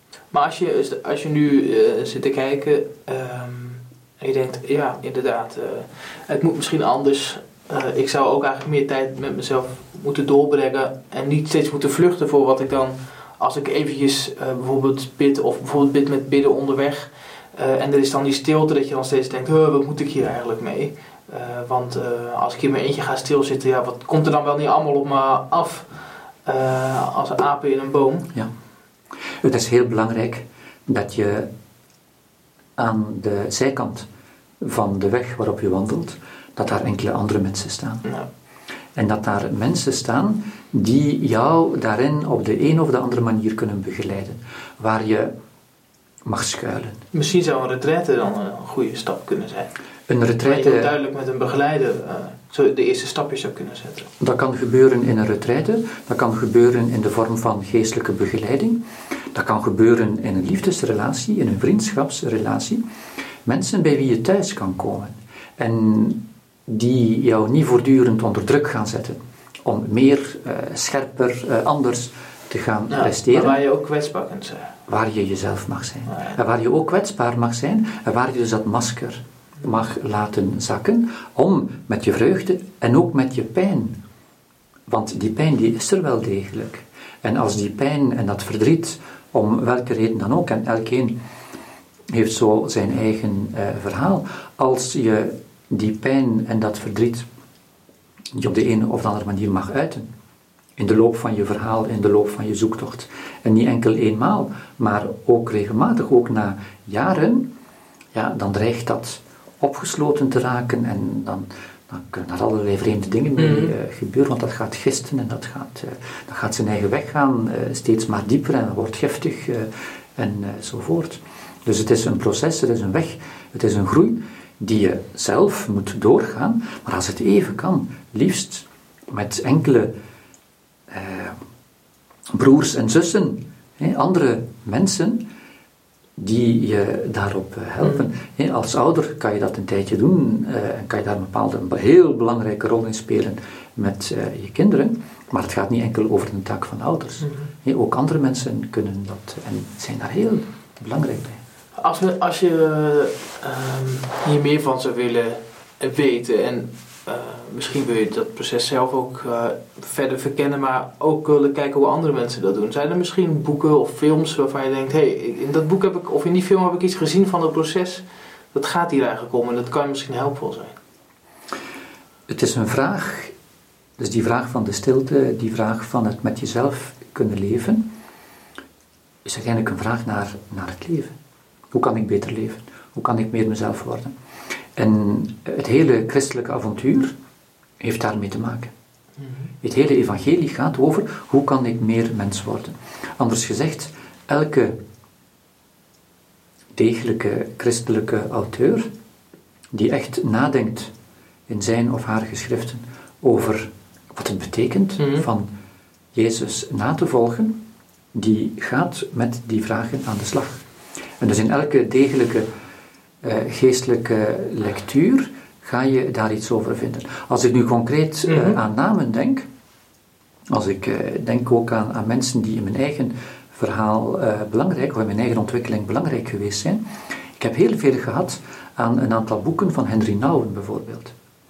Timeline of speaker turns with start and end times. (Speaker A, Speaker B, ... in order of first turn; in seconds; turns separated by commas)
Speaker A: 0.3-25.9, Speaker A: 26.4-28.3, Speaker B: 29.4-31.5, Speaker B: 32.8-34.1, Speaker B: 34.6-38.0, Speaker B: 38.9-45.3, Speaker B: 46.2-47.0, Speaker A: 47.1-49.7, Speaker B: 50.1-50.9, Speaker A: 50.4-54.1, Speaker B: 54.2-58.8, Speaker B: 59.3-62.8, Speaker B: 63.4-73.6, Speaker A: 72.9-74.7, Speaker B: 74.9-84.0, Speaker A: 76.1-76.4, Speaker B: 84.9-91.2, Speaker B: 92.1-97.3, Speaker B: 98.3-100.1, Speaker B: 100.8-107.5, Speaker B: 108.1-129.9, Speaker A: 113.4-113.7, Speaker B: 130.9-131.4, Speaker B: 132.3-135.2, Speaker B: 136.2-151.4, Speaker A: 137.8-138.1, Speaker A: 147.2-147.5, Speaker A: 151.8-170.8, Speaker B: 172.3-173.3, Speaker B: 174.0-177.8, Speaker B: 179.2-181.1, Speaker B: 181.7-184.1, Speaker B: 184.8-187.1, Speaker B: 187.8-188.7, Speaker A: 189.2-189.5, Speaker B: 189.6-194.8, Speaker B: 196.8-198.9, Speaker B: 199.7-200.9, Speaker B: 201.5-205.5, Speaker A: 205.0-205.3, Speaker B: 206.1-207.6, Speaker B: 208.1-210.6, Speaker B: 211.2-212.5, Speaker B: 213.2-219.5, Speaker A: 218.2-218.6, Speaker B: 220.5-226.8, Speaker B: 227.4-231.1